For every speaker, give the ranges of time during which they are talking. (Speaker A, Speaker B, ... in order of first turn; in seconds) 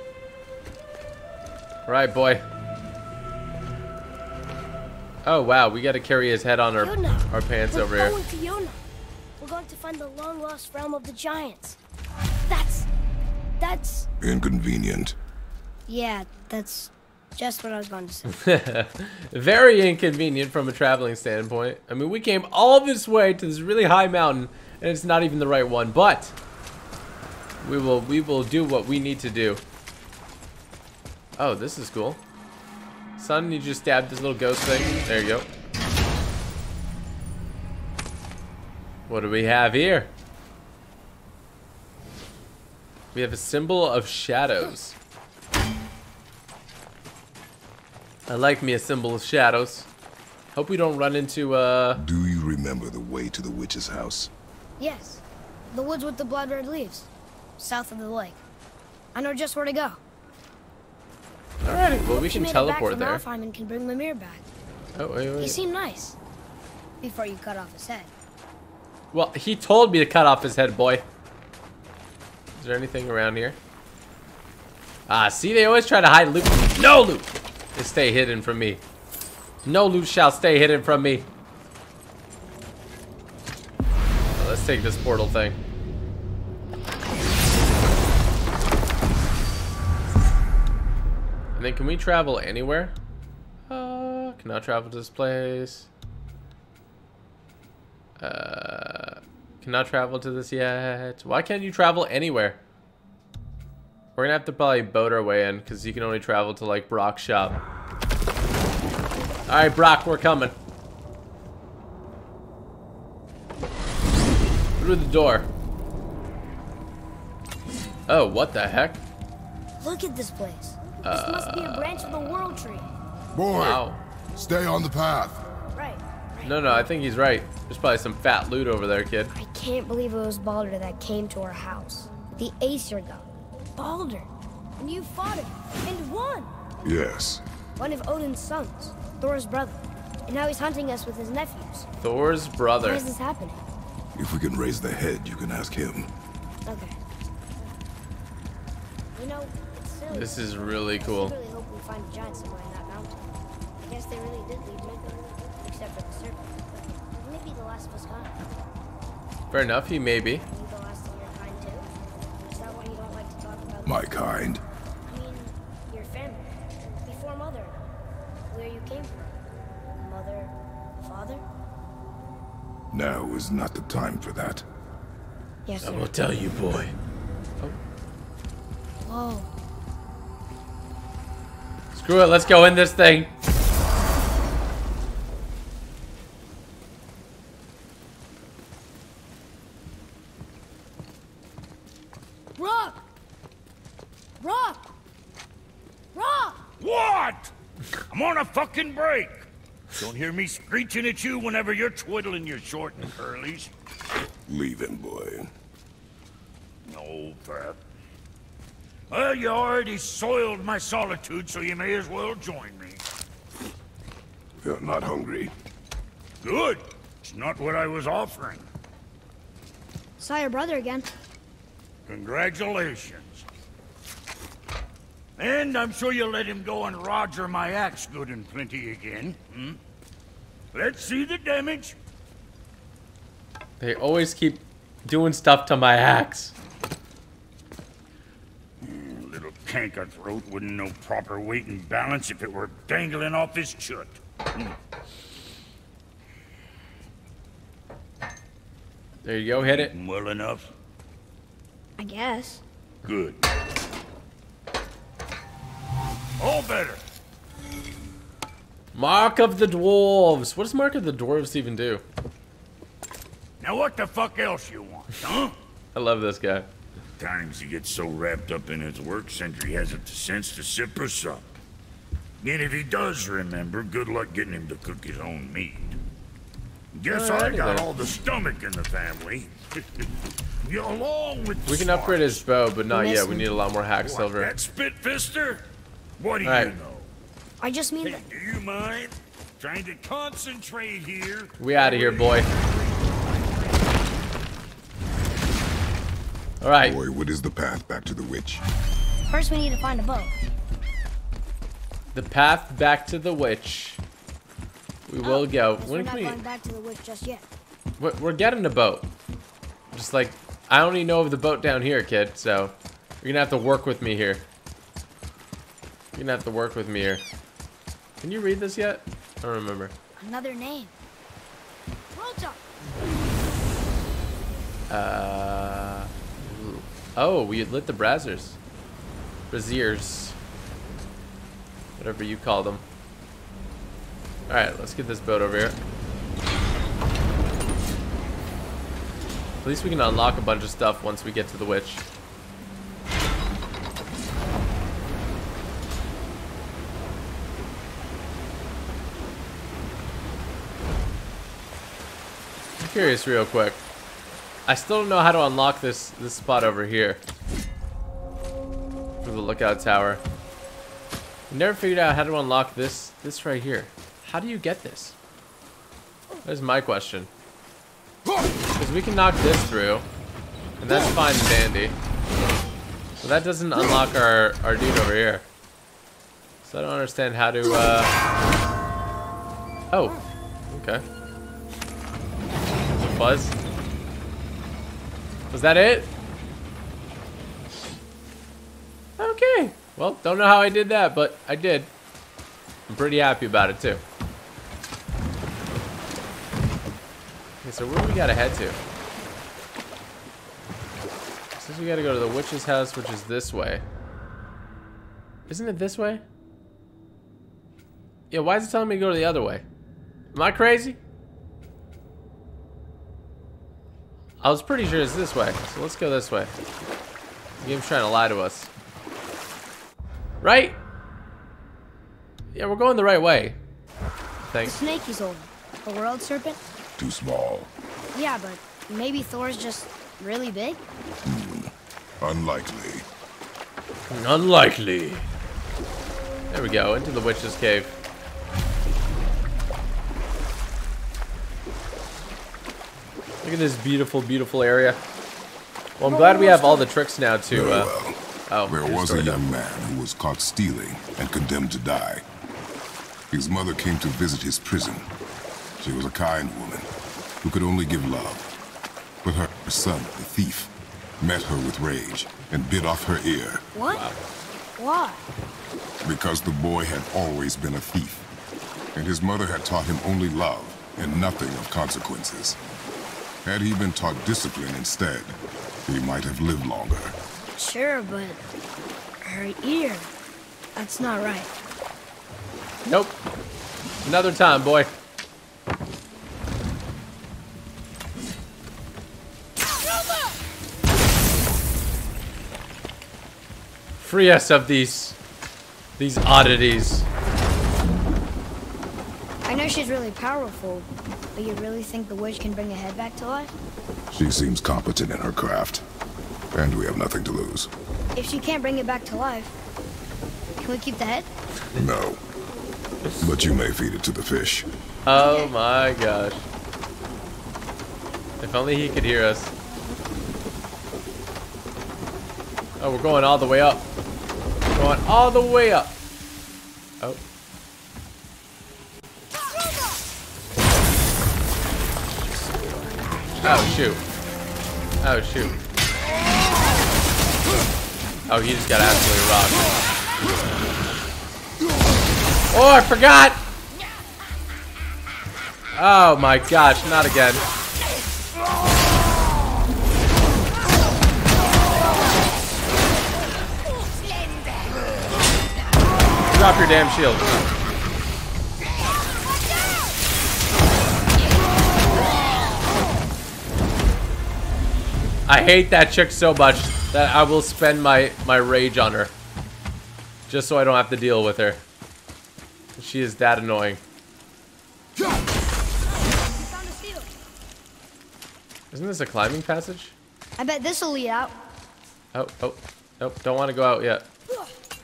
Speaker A: 1.9-2.4, 5.2-8.2, 18.3-26.3, 27.6-29.6, 31.4-32.2, 33.2-35.5, 39.1-40.1, 43.1-44.9, 48.3-49.9, 50.5-52.0, 61.6-63.2, 65.0-65.6, 69.1-71.0, 72.6-73.6, 75.1-78.8, 79.6-81.3, 84.3-85.6, 91.5-92.9, 93.7-95.9, 98.2-102.6, 104.2-107.6, 109.5-110.5, 114.8-115.5, 118.1-119.0, 121.0-122.3, 123.5-124.0, 126.4-129.3, 142.0-143.1, 150.1-151.3, 159.5-160.4, 175.8-176.9, 181.9-183.3, 233.8-236.5, 249.2-249.9, 258.9-262.0, 265.9-266.7, 277.1-277.9, 281.6-284.5, 286.4-286.7, 291.6-292.5, 296.6-297.0, 302.1-304.0, 305.1-306.4, 308.0-309.1, 309.9-314.4, 316.1-317.2, 318.2-319.9, 324.9-328.6, 329.5-330.4, 332.0-332.8, 334.5-335.8, 339.6-342.0, 352.8-353.8, 354.7-357.2, 359.2-360.2, 361.5-365.1, 366.4-367.3, 368.8-370.1, 370.8-371.9, 373.2-375.4, 376.6-378.1, 379.9-380.2, 380.7-381.0, 383.0-383.5, 385.5-386.1, 389.2-391.9, 392.9-394.0, 397.6-398.8, 401.6-403.8, 405.5-406.2, 408.3-409.6, 410.3-411.0, 414.4-416.5, 417.6-418.7, 420.4-420.8, 422.5-423.6, 424.5-424.8, 434.1-435.2, 436.5-437.9, 443.4-445.0, 446.0-447.9, 448.5-449.8, 463.9-464.2, 482.8-483.1, 484.0-484.9, 494.0-495.1, 496.0-497.1, 515.0-516.5, 518.4-519.5, 522.8-523.9, 524.7-525.9, 533.4-534.0, 535.0-535.5, 538.3-539.7, 542.5-543.4, 545.7-547.4, 556.3-557.3, 565.3-569.1, 570.3-571.6, 572.8-573.8, 578.7-579.9, 582.1-584.1
Speaker B: 6.8-8.8, 9.4-11.8, 12.4-12.9, 13.6-14.1, 15.9-18.2, 54.8-58.4, 59.1-60.0, 62.0-64.4, 65.4-66.2, 67.0-68.1, 119.8-122.9, 125.7-126.9, 129.3-134.3, 134.8-136.5, 137.8-141.9, 142.8-143.6, 146.6-147.0, 149.1-153.2, 153.8-158.4, 160.4-161.9, 162.4-164.0, 165.1-166.5, 167.0-167.8, 168.5-169.3, 170.0-171.4, 175.7-176.1, 179.0-179.5, 192.6-193.0, 194.4-194.9, 196.1-196.6, 220.2-221.1, 252.0-252.6, 282.9-283.6, 287.6-288.2, 299.2-300.4, 305.2-307.4, 320.2-320.9, 322.1-322.6, 424.6-426.6, 428.1-430.8, 446.0-446.9, 463.7-464.1, 464.8-465.2, 477.5-478.4, 479.2-480.1, 480.8-481.5, 499.4-503.5, 508.1-509.5, 510.6-511.3, 515.1-515.5, 576.2-577.1, 580.4-581.4
Speaker C: 14.2-15.1, 52.0-54.3, 123.3-125.4, 136.8-137.4, 144.2-146.1, 163.8-164.6, 172.9-174.6, 204.5-205.5, 214.6-215.5, 296.8-298.6, 427.0-427.7, 431.2-433.0, 447.5-452.2, 453.3-455.1, 455.8-456.9, 457.4-458.4, 459.2-463.6, 466.0-468.2, 468.9-472.6, 473.4-477.1, 504.1-505.8, 506.5-507.7, 511.7-512.2, 513.2-514.7, 532.4-532.9
Speaker D: 196.8-197.5, 198.1-203.7, 206.8-207.8, 209.1-213.0, 216.4-218.6, 222.1-223.4, 225.4-229.8, 230.7-231.9, 238.8-244.7, 249.6-250.7, 253.0-253.5, 256.4-257.0, 263.6-265.5, 267.2-271.6, 272.4-276.0, 276.9-280.1, 280.6-282.4, 284.0-285.6, 286.2-287.1, 288.0-292.5, 293.2-293.8